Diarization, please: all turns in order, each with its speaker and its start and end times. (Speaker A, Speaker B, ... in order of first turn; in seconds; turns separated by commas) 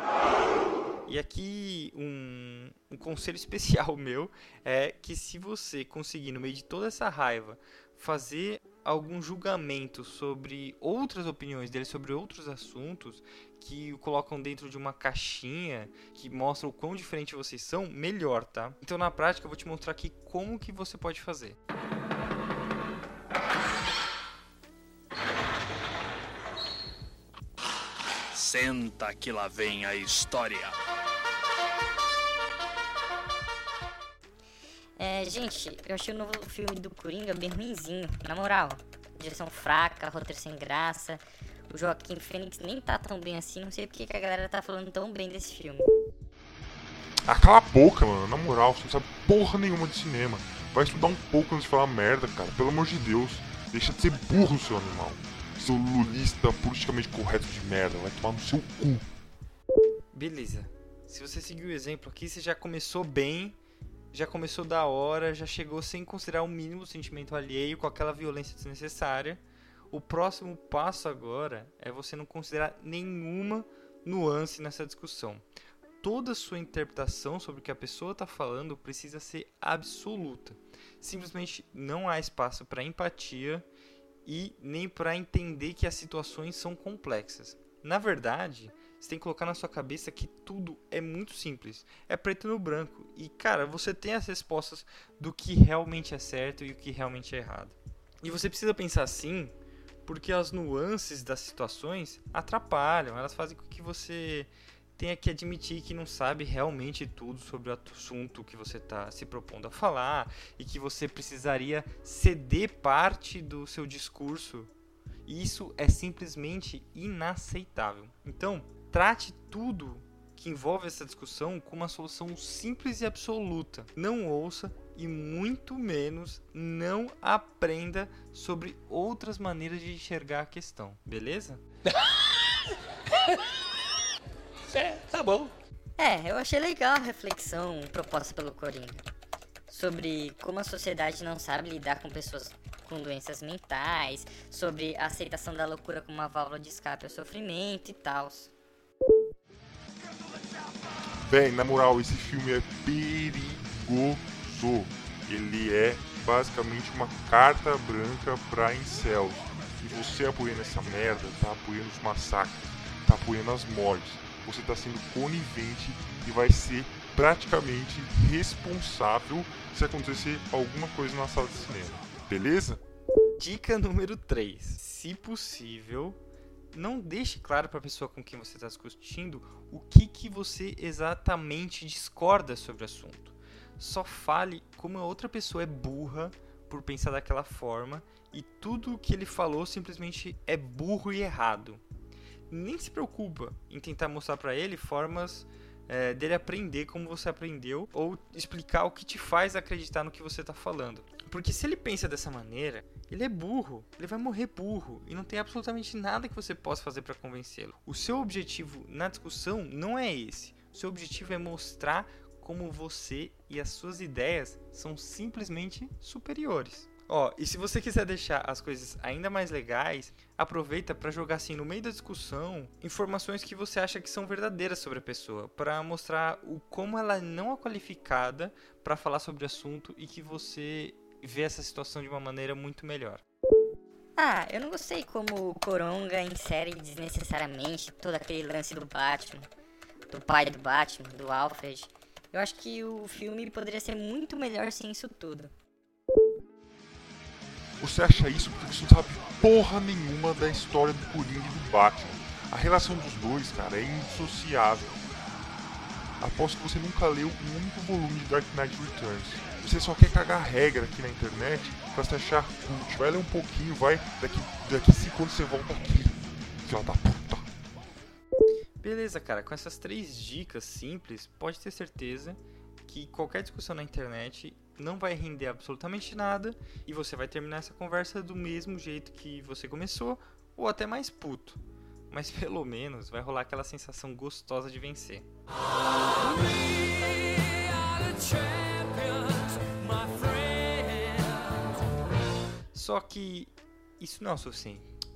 Speaker A: 1.1-21.6, Speaker B: 28.4-30.8, Speaker C: 35.0-45.9, Speaker D: 47.3-59.0, Speaker A: 60.1-63.6, Speaker A: 64.1-75.5, Speaker A: 76.0-83.7, Speaker A: 84.2-99.5, Speaker A: 100.0-114.7, Speaker A: 115.3-131.6, Speaker C: 136.0-139.0, Speaker C: 139.7-148.5, Speaker D: 151.3-172.8, Speaker A: 173.4-176.2, Speaker A: 176.7-191.8, Speaker A: 192.5-233.2, Speaker C: 234.2-239.5, Speaker C: 240.1-245.5, Speaker D: 247.8-255.0, Speaker D: 256.2-267.5, Speaker A: 268.8-285.3, Speaker A: 292.7-294.9